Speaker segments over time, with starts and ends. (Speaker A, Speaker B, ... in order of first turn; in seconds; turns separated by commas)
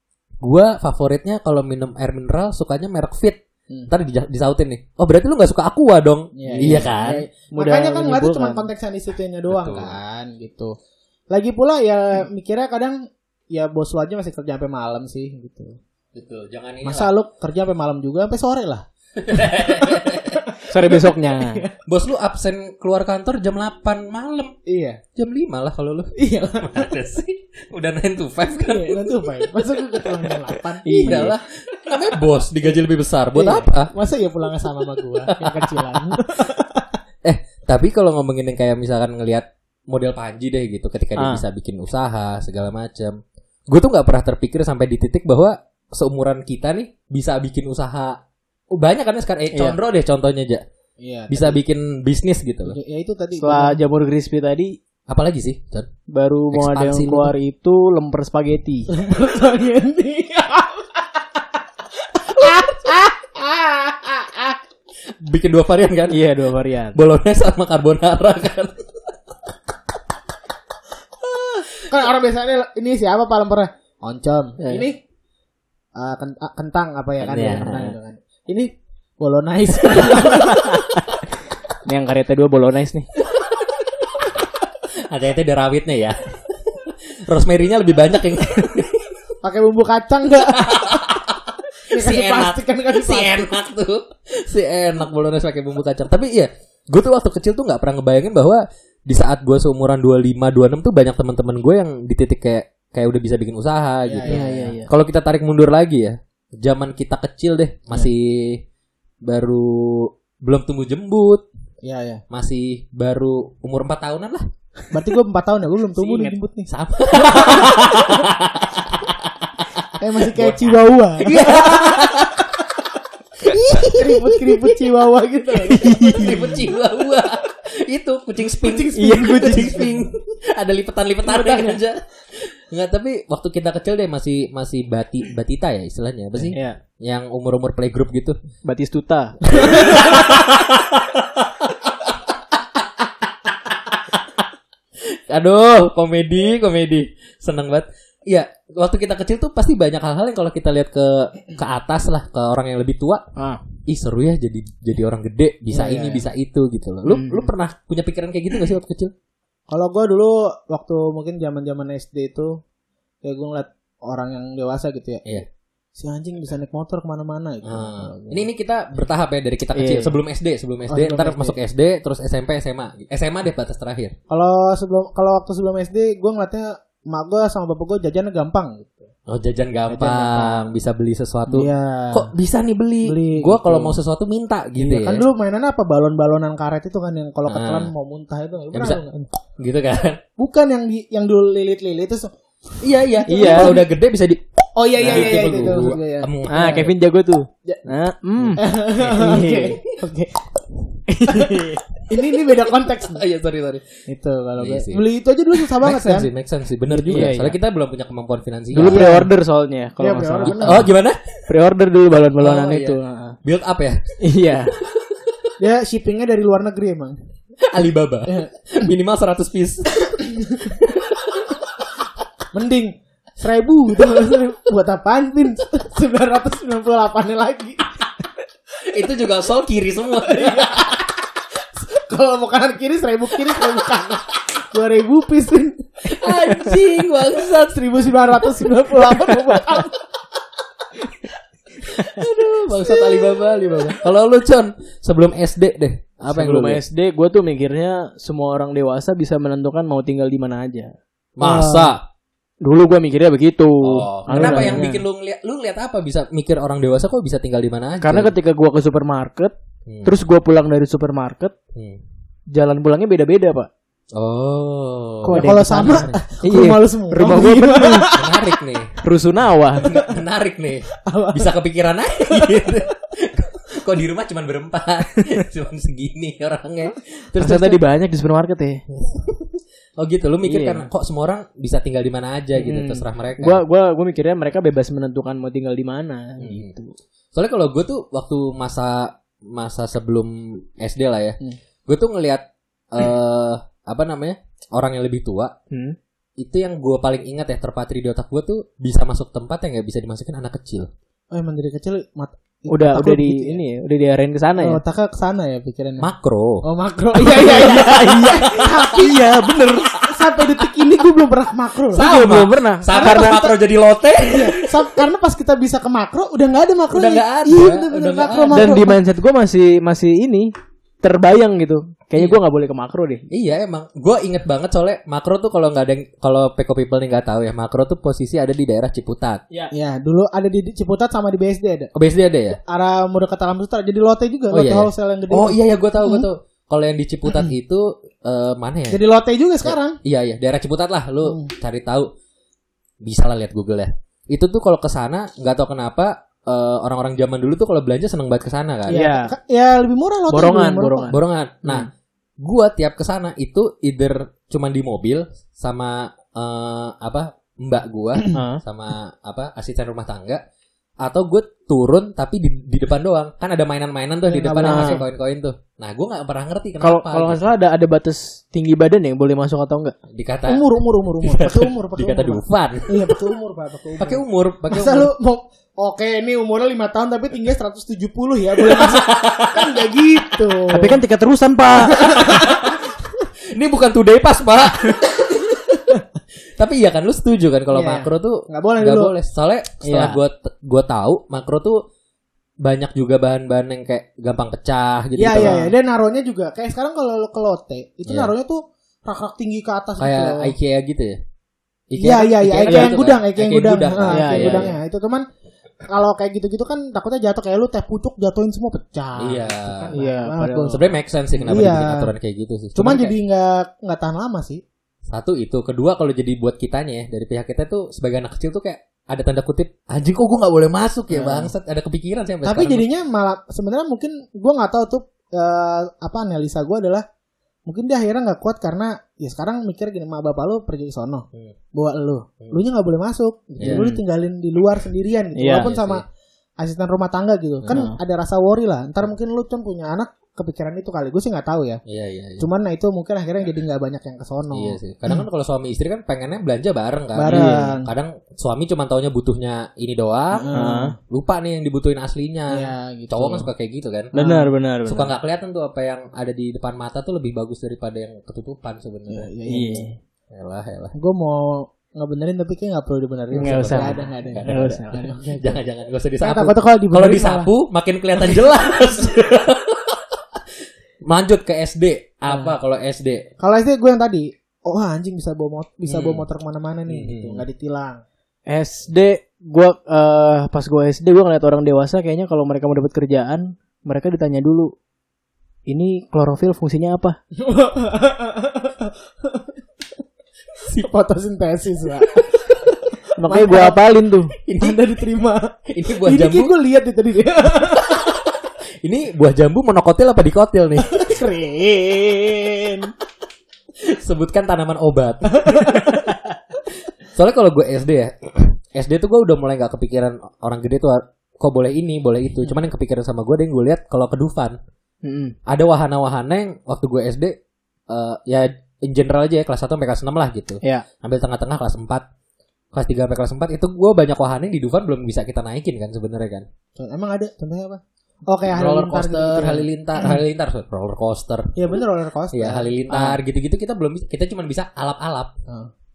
Speaker A: 0.4-7.2, Speaker B: 6.3-10.7, Speaker C: 6.5-6.9, Speaker C: 7.5-8.7, Speaker A: 9.5-10.0, Speaker B: 11.3-13.0, Speaker B: 13.5-15.8, Speaker A: 16.1-17.1, Speaker B: 16.8-21.8, Speaker A: 19.2-20.4, Speaker C: 20.7-21.6, Speaker A: 21.9-24.6, Speaker B: 24.7-25.0, Speaker A: 25.1-30.3, Speaker B: 26.2-26.9, Speaker B: 28.7-31.3, Speaker C: 30.9-31.3, Speaker A: 30.9-33.9, Speaker B: 33.3-37.0, Speaker A: 35.2-36.2, Speaker A: 37.2-43.2, Speaker C: 41.2-41.4, Speaker A: 43.7-48.2, Speaker A: 48.7-50.6, Speaker B: 51.0-51.6, Speaker A: 51.3-52.8, Speaker B: 52.7-53.8, Speaker C: 53.4-54.7, Speaker A: 55.1-55.9, Speaker C: 56.1-58.9, Speaker A: 56.5-57.3, Speaker B: 58.9-64.6, Speaker A: 65.2-66.2, Speaker C: 66.1-67.0, Speaker A: 67.0-68.9, Speaker B: 71.2-75.0, Speaker C: 74.6-74.9, Speaker B: 76.0-80.7, Speaker A: 77.2-77.9, Speaker C: 81.8-83.1, Speaker A: 83.9-84.3, Speaker A: 85.1-89.2, Speaker B: 89.4-91.2, Speaker A: 90.5-91.4, Speaker A: 91.9-108.6, Speaker B: 91.9-93.5, Speaker B: 104.1-104.7, Speaker C: 104.2-104.9, Speaker A: 109.3-111.5, Speaker B: 111.8-112.2, Speaker A: 112.3-114.5, Speaker B: 114.9-117.7, Speaker C: 116.0-116.3, Speaker A: 116.7-122.6, Speaker B: 120.0-122.3, Speaker A: 123.4-124.3, Speaker B: 123.5-126.7, Speaker C: 125.7-126.4, Speaker A: 126.1-138.4, Speaker B: 128.6-129.8, Speaker C: 128.9-129.9, Speaker C: 131.3-131.8, Speaker C: 138.7-139.4, Speaker A: 139.5-144.4, Speaker A: 145.2-153.2, Speaker C: 153.4-153.6, Speaker A: 153.9-159.1, Speaker B: 155.7-156.3, Speaker C: 157.1-157.5, Speaker B: 159.7-162.6, Speaker B: 163.2-165.4, Speaker B: 166.0-168.5, Speaker A: 167.6-174.2, Speaker C: 169.8-170.2, Speaker B: 170.9-171.6, Speaker B: 174.3-179.1, Speaker A: 179.3-185.2, Speaker B: 179.9-180.7, Speaker B: 181.5-182.3, Speaker B: 183.0-184.0, Speaker B: 184.8-189.3, Speaker A: 187.5-187.9, Speaker A: 188.7-189.0, Speaker A: 189.6-190.2, Speaker B: 190.4-193.9, Speaker A: 192.8-196.8, Speaker C: 193.3-193.7, Speaker B: 194.8-196.9, Speaker C: 196.5-199.8, Speaker A: 198.4-200.0, Speaker B: 198.6-200.4, Speaker C: 201.1-201.8, Speaker A: 201.3-201.6, Speaker B: 202.1-203.2, Speaker A: 203.0-204.0, Speaker B: 204.1-206.3, Speaker A: 204.6-205.0, Speaker A: 205.8-209.1, Speaker C: 206.9-207.6, Speaker C: 208.7-210.9, Speaker B: 208.8-209.3, Speaker B: 210.0-210.9, Speaker A: 210.5-211.4, Speaker C: 211.5-213.4, Speaker A: 212.4-214.2, Speaker C: 214.2-214.8, Speaker A: 214.9-215.5, Speaker B: 215.6-217.2, Speaker A: 217.7-221.6, Speaker B: 220.2-220.9, Speaker B: 222.5-228.0, Speaker A: 228.8-231.0, Speaker B: 230.3-236.4, Speaker A: 236.0-238.2, Speaker B: 237.4-240.0, Speaker A: 241.8-246.8, Speaker B: 242.8-244.0, Speaker C: 246.3-250.9, Speaker A: 251.4-252.0, Speaker B: 251.4-251.9, Speaker C: 252.6-255.0, Speaker A: 253.8-258.3, Speaker B: 254.3-254.8, Speaker C: 258.0-259.5, Speaker A: 259.9-260.1, Speaker C: 260.1-261.5, Speaker A: 261.8-262.0, Speaker C: 262.5-263.7, Speaker A: 264.1-266.2, Speaker C: 265.2-268.1, Speaker B: 265.3-268.5, Speaker A: 268.1-269.0, Speaker C: 269.0-269.9, Speaker A: 269.8-277.8, Speaker B: 271.1-271.5, Speaker B: 272.4-272.7, Speaker C: 277.4-278.8, Speaker A: 279.0-283.6, Speaker C: 280.4-280.9, Speaker C: 282.6-286.9, Speaker A: 286.4-286.7, Speaker A: 287.3-295.5, Speaker C: 295.7-296.0, Speaker A: 296.4-300.9, Speaker B: 301.3-303.6, Speaker C: 302.7-304.8, Speaker B: 304.6-306.1, Speaker A: 306.0-306.6, Speaker B: 306.6-309.2, Speaker A: 307.2-310.4, Speaker C: 307.4-309.8, Speaker B: 310.1-312.1, Speaker A: 311.9-315.0, Speaker C: 312.0-313.4, Speaker B: 312.9-313.6, Speaker B: 314.3-319.0, Speaker A: 316.9-318.9, Speaker C: 318.5-320.5, Speaker C: 321.0-323.2, Speaker A: 323.3-329.4, Speaker B: 329.7-331.9, Speaker A: 331.9-332.6, Speaker B: 332.6-336.3, Speaker A: 334.5-339.0, Speaker B: 337.3-337.5, Speaker B: 338.9-340.0, Speaker A: 339.6-342.1, Speaker B: 341.2-341.5, Speaker A: 343.0-349.0, Speaker B: 348.9-351.1, Speaker C: 348.9-349.3, Speaker C: 350.3-351.9, Speaker A: 351.1-351.9, Speaker A: 352.4-360.4, Speaker C: 358.3-358.6, Speaker A: 361.0-367.5, Speaker B: 364.3-365.1, Speaker C: 364.6-365.0, Speaker C: 366.8-369.9, Speaker A: 370.1-373.2, Speaker B: 370.5-381.0, Speaker A: 374.0-375.1, Speaker A: 378.7-379.7, Speaker C: 380.7-381.9, Speaker B: 381.9-382.7, Speaker A: 381.9-382.9, Speaker A: 383.5-385.6, Speaker B: 385.3-386.0, Speaker A: 386.6-391.8, Speaker B: 387.7-389.1, Speaker C: 389.8-390.2, Speaker A: 392.6-395.6, Speaker B: 395.2-400.5, Speaker C: 395.4-395.7, Speaker A: 398.1-398.3, Speaker A: 400.0-401.2, Speaker A: 401.9-404.7, Speaker B: 402.0-405.2, Speaker C: 402.6-403.0, Speaker C: 404.1-404.7, Speaker B: 405.9-410.8, Speaker A: 409.2-409.9, Speaker C: 409.9-410.8, Speaker A: 410.7-413.1, Speaker B: 411.4-412.1, Speaker B: 412.8-414.6, Speaker A: 415.1-422.9, Speaker B: 421.1-421.5, Speaker B: 422.4-427.0, Speaker B: 427.7-436.0, Speaker A: 433.6-433.9, Speaker C: 433.6-434.0, Speaker C: 435.4-435.7, Speaker A: 435.5-436.0, Speaker B: 436.6-441.8, Speaker C: 437.7-438.0, Speaker A: 441.9-442.5, Speaker B: 442.4-445.2, Speaker A: 444.5-450.5, Speaker B: 447.1-447.9, Speaker C: 447.3-447.7, Speaker B: 450.3-451.0, Speaker C: 450.5-450.9, Speaker A: 451.1-454.1, Speaker B: 452.5-453.5, Speaker B: 454.1-454.5, Speaker C: 454.1-455.1, Speaker A: 454.9-459.3, Speaker B: 459.1-459.9, Speaker C: 459.5-459.9, Speaker A: 460.3-460.9, Speaker B: 460.9-465.6, Speaker A: 463.4-464.7, Speaker C: 463.4-465.1, Speaker A: 465.4-470.4, Speaker B: 466.2-467.5, Speaker A: 471.1-473.3, Speaker B: 473.4-478.0, Speaker A: 475.9-476.2, Speaker A: 476.9-477.4, Speaker C: 478.5-484.7, Speaker C: 485.7-487.2, Speaker B: 487.4-489.6, Speaker A: 490.6-490.9, Speaker B: 490.8-493.8, Speaker C: 493.2-494.3, Speaker A: 494.4-494.8, Speaker B: 494.6-498.2, Speaker A: 495.7-496.5, Speaker A: 497.8-498.2, Speaker A: 498.8-501.2, Speaker B: 500.9-502.9, Speaker A: 503.9-506.1, Speaker B: 505.3-506.2, Speaker A: 507.1-514.6, Speaker C: 515.0-515.4, Speaker A: 515.5-517.4, Speaker A: 517.9-522.0, Speaker A: 522.7-526.5, Speaker B: 526.8-530.2, Speaker A: 528.5-531.6, Speaker B: 531.6-533.2, Speaker A: 532.3-535.3